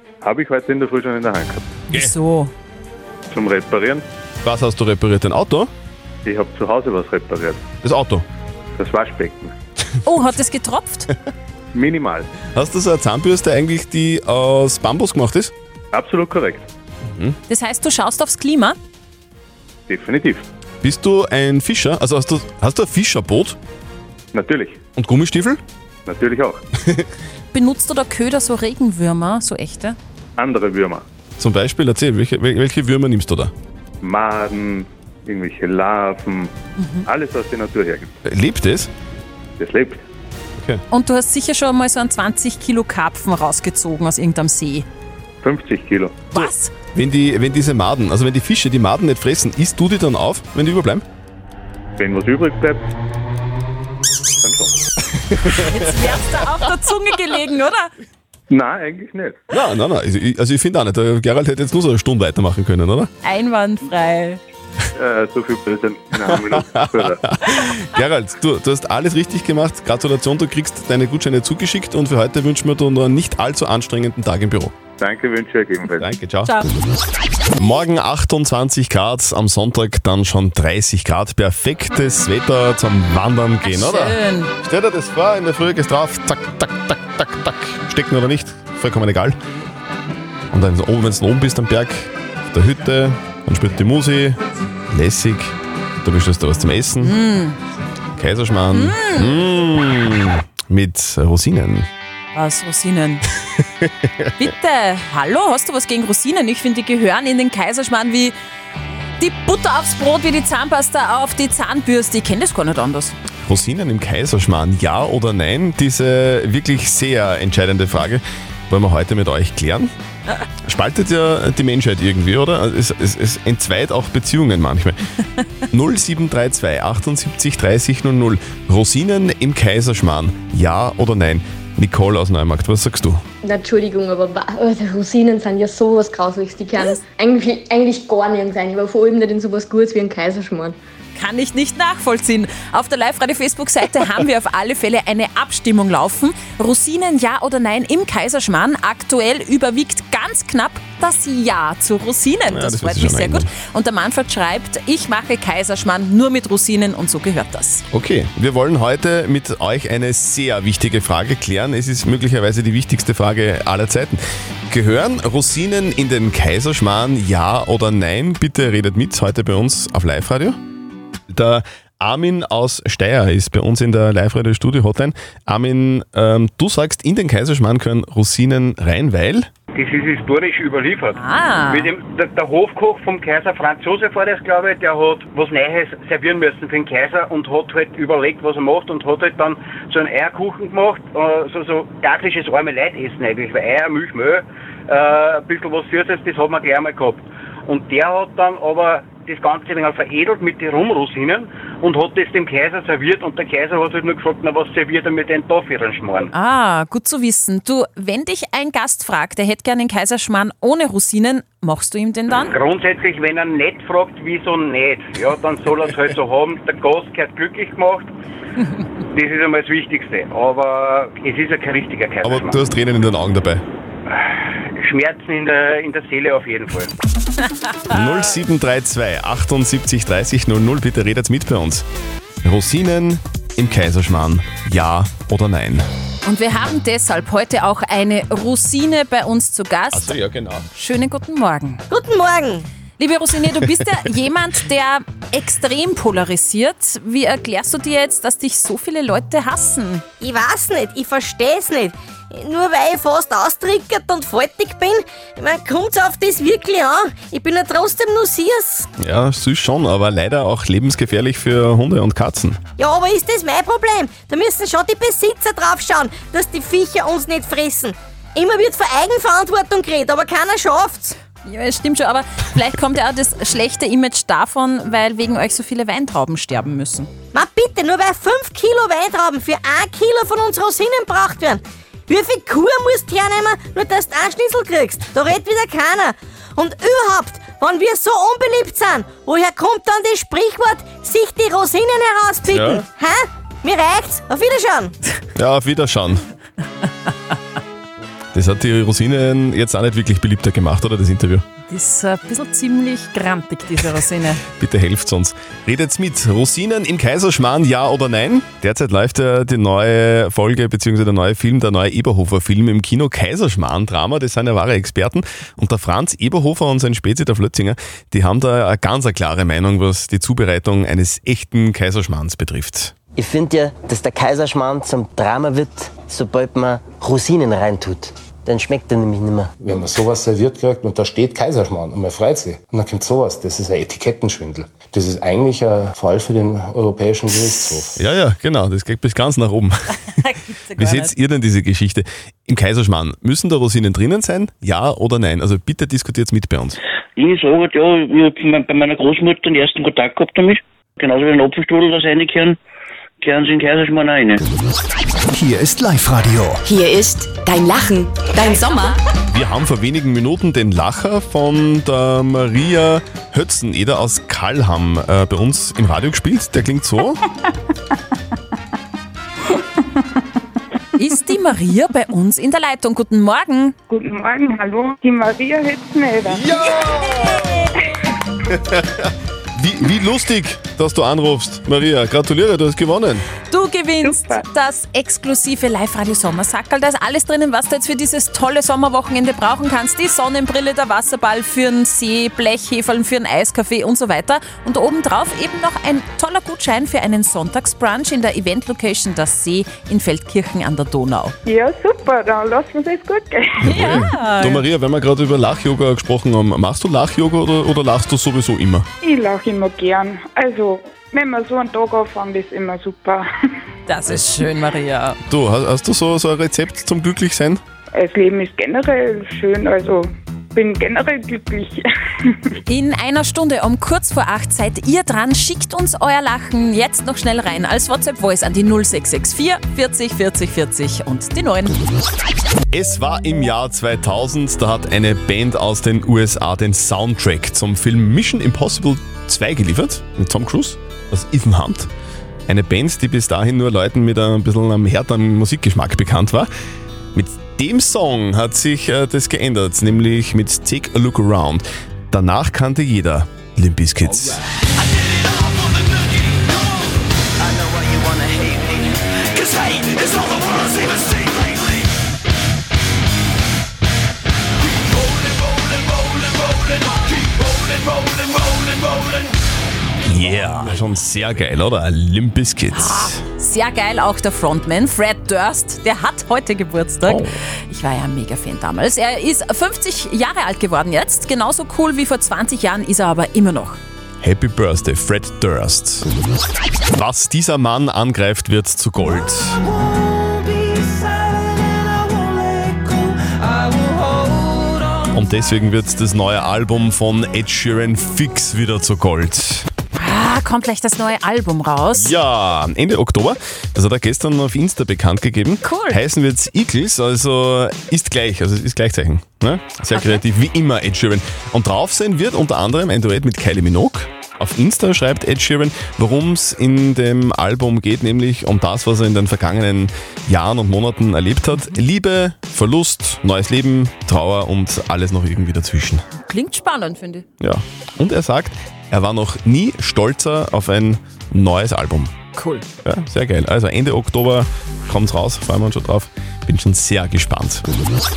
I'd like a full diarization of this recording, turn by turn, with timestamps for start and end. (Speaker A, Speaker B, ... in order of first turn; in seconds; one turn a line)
Speaker A: 0.2-1.6
Speaker B: 1.9-2.5
Speaker A: 3.3-4.0
Speaker C: 4.4-5.7
Speaker A: 6.2-7.6
Speaker C: 7.8-8.2
Speaker A: 8.8-9.5
Speaker B: 10.0-11.1
Speaker A: 11.7-12.3
Speaker C: 12.5-15.5
Speaker A: 15.9-16.7
Speaker C: 17.1-17.4
Speaker B: 17.5-18.8
Speaker A: 19.9-20.4
Speaker C: 20.8-23.6
Speaker A: 24.3-24.8
Speaker C: 24.9-25.6
Speaker A: 26.1-26.6
Speaker B: 27.5-30.0
Speaker A: 30.4-31.0
Speaker C: 31.4-33.5
Speaker A: 34.0-36.5
Speaker B: 36.8-37.0
Speaker A: 37.0-38.1
Speaker C: 38.2-38.9
Speaker A: 39.6-40.0
Speaker C: 40.6-40.8
Speaker B: 40.9-44.9
Speaker A: 45.4-46.2
Speaker B: 46.3-46.7
Speaker C: 46.3-51.0
Speaker A: 52.0-52.9
Speaker A: 54.4-54.7
Speaker C: 55.3-55.8
Speaker B: 55.5-57.9
Speaker A: 58.5-59.4
Speaker C: 59.5-63.1
Speaker B: 63.2-64.4
Speaker A: 65.0-67.2
Speaker C: 66.2-74.7
Speaker A: 75.0-76.1
Speaker C: 76.0-76.5
Speaker B: 76.4-76.7
Speaker C: 77.5-89.4
Speaker B: 83.6-84.5
Speaker C: 90.5-97.2
Speaker B: 97.0-97.6
Speaker C: 98.1-101.9
Speaker B: 98.7-99.4
Speaker B: 102.3-103.2
Speaker C: 103.8-104.3
Speaker B: 104.4-108.3
Speaker B: 109.2-113.2
Speaker C: 113.5-119.9
Speaker C: 120.7-125.0
Speaker C: 125.7-133.2
Speaker D: 133.4-140.8
Speaker B: 141.1-157.8
Speaker C: 152.5-153.5
Speaker C: 157.9-170.6
Speaker C: 171.3-179.5
Speaker E: 179.7-181.2
Speaker B: 181.1-181.9
Speaker E: 181.7-206.3
Speaker B: 206.3-212.5
Speaker E: 212.6-218.1
Speaker E: 219.1-222.5
Speaker C: 222.2-223.6
Speaker E: 224.8-226.9
Speaker C: 227.9-231.8
Speaker C: 232.4-235.8
Speaker B: 236.2-241.8
Speaker C: 239.9-240.7
Speaker F: 241.9-242.7
Speaker B: 243.0-250.0
Speaker F: 250.2-258.9
Speaker C: 259.0-262.6
Speaker F: 262.8-271.1
Speaker B: 271.4-277.1
Speaker F: 277.3-294.9
Speaker C: 292.5-292.8
Speaker C: 295.4-296.2
Speaker C: 298.3-301.4
Speaker B: 301.7-304.4
Speaker C: 304.5-322.9
Speaker G: 323.1-329.9
Speaker H: 329.7-338.0
Speaker C: 338.0-339.9
Speaker B: 340.2-341.1
Speaker C: 340.8-346.8
Speaker I: 347.2-352.6
Speaker I: 353.2-354.4
Speaker H: 355.3-356.6
Speaker J: 356.6-358.9
Speaker C: 359.3-367.2
Speaker B: 370.9-373.8
Speaker K: 373.9-376.7
Speaker C: 376.3-377.7
Speaker C: 378.5-383.2
Speaker B: 383.5-401.4
Speaker K: 384.0-384.4
Speaker K: 401.4-404.0
Speaker B: 403.6-404.6
Speaker C: 403.6-408.9
Speaker K: 409.0-413.2
Speaker B: 413.9-415.2
Speaker C: 415.2-417.6
Speaker K: 417.9-421.8
Speaker B: 422.6-431.8
Speaker C: 432.7-441.9
Speaker C: 442.5-446.5
Speaker C: 447.1-454.4
Speaker C: 470.0-473.2
Speaker B: 472.7-483.8
Speaker C: 477.0-477.3
Speaker C: 484.2-486.1
Speaker C: 486.9-489.6
Speaker C: 495.1-499.7
Speaker B: 499.9-502.1
Speaker C: 501.9-526.0
Speaker B: 505.6-506.0
Speaker B: 526.1-527.2
Speaker C: 527.4-532.1
Speaker B: 532.3-532.6
Speaker C: 532.8-537.6